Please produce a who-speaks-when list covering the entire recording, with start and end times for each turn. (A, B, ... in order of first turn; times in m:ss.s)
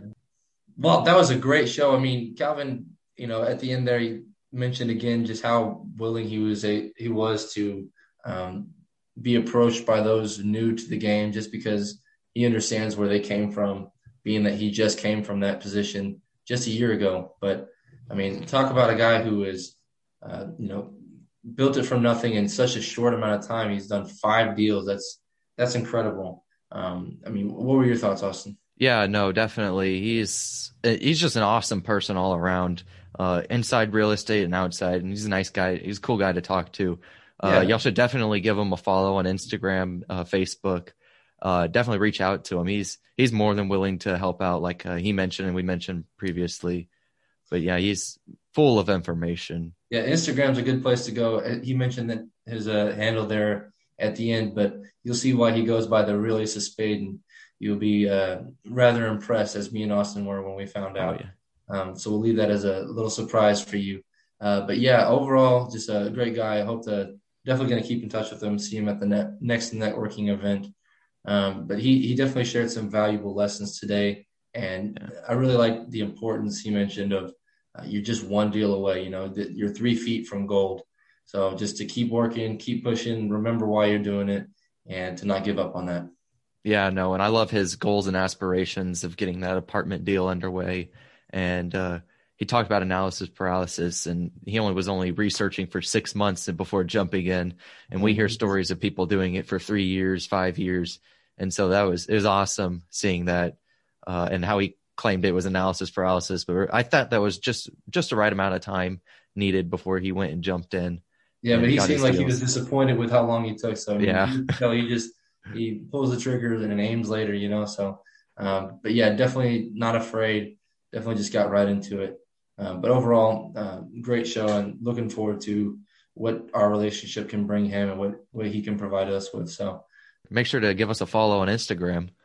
0:00.8-0:28.6 A
0:28.8-0:46.9 B
0:37.4-0:37.7 A
0:47.5-0:49.7 B
0:49.9-1:10.7 A
1:01.0-1:01.3 B
1:11.2-1:26.1 A
1:26.6-1:52.4 B
1:38.0-1:38.6 A
1:51.4-2:09.8 A
1:54.0-1:54.6 B
2:10.3-2:12.1 B